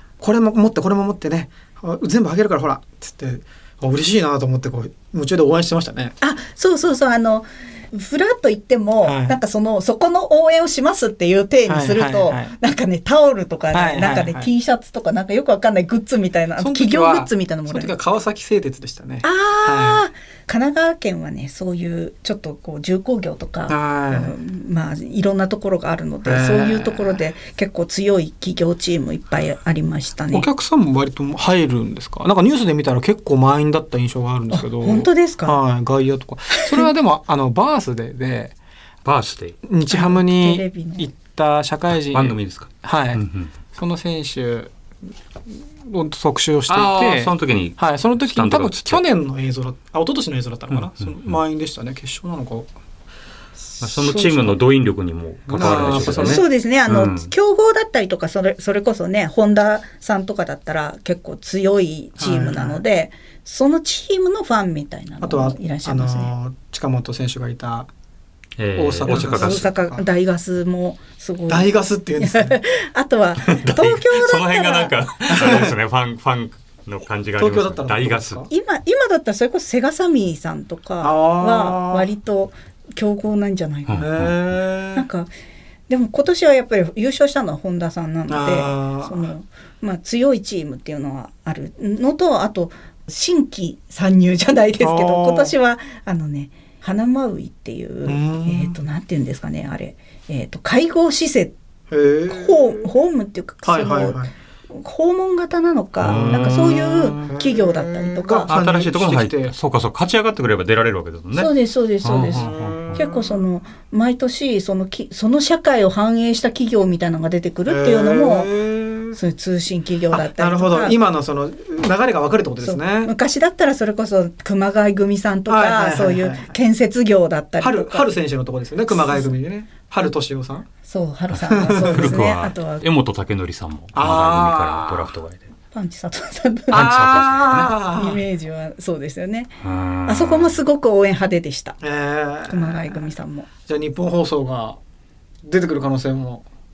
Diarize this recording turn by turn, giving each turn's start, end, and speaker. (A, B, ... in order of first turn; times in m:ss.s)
0:00.2-0:06.2 A
0:06.2-0:17.9 B
0:09.0-0:09.4 A
0:11.7-0:12.6 A
0:13.7-0:14.5 A
0:16.6-0:20.0 A
0:19.2-0:30.5 B
0:23.7-0:24.4 A
0:26.2-0:27.2 A
0:30.3-0:38.6 A
0:34.5-0:35.6 B
0:36.5-0:36.9 B
0:39.0-0:39.6 C
0:39.7-0:43.2 A
0:39.9-0:41.1 B
0:41.9-0:43.5 C
0:43.8-0:44.7 A
0:45.5-0:52.7 A
0:46.7-0:49.0 C
0:50.7-0:51.4 C
0:53.8-0:57.3 C
0:55.5-0:56.4 A
0:55.6-1:06.3 B
1:02.2-1:02.8 A
1:05.2-1:07.9 A
1:08.6-1:09.7 C
1:08.8-1:10.0 A
1:09.1-1:15.0 B
1:11.5-1:12.6 A
1:13.4-1:18.4 C
1:15.3-1:15.8 A
1:17.4-1:18.5 A
1:18.5-1:24.1 B
1:21.0-1:22.1 A
1:23.9-1:24.4 C
1:24.0-1:25.1 A
1:25.0-1:25.3 B
1:25.9-1:41.6 B
1:28.3-1:29.3 A
1:34.8-1:35.6 A
1:38.0-1:38.8 A
1:41.9-1:42.9 A
1:42.3-1:48.5 B
1:43.6-1:44.3 A
1:46.0-1:46.8 C
1:46.0-1:49.6 A
1:48.5-1:51.5 C
1:51.4-1:58.5 B
1:52.0-1:53.0 C
1:52.3-1:53.4 A
1:57.7-1:59.2 A
1:59.1-2:01.0 B
2:00.1-2:03.1 A
2:02.6-2:08.2 B
2:05.5-2:06.6 A
2:07.6-2:10.7 A
2:08.9-2:09.3 B
2:10.8-2:12.9 B
2:11.5-2:12.2 A
2:11.8-2:15.5 C
2:13.9-2:15.1 A
2:15.7-2:21.8 B
2:16.7-2:18.2 A
2:16.7-2:17.8 C
2:19.6-2:20.6 C
2:21.8-2:23.1 A
2:22.5-2:23.5 B
2:23.7-2:24.8 A
2:25.4-2:26.5 A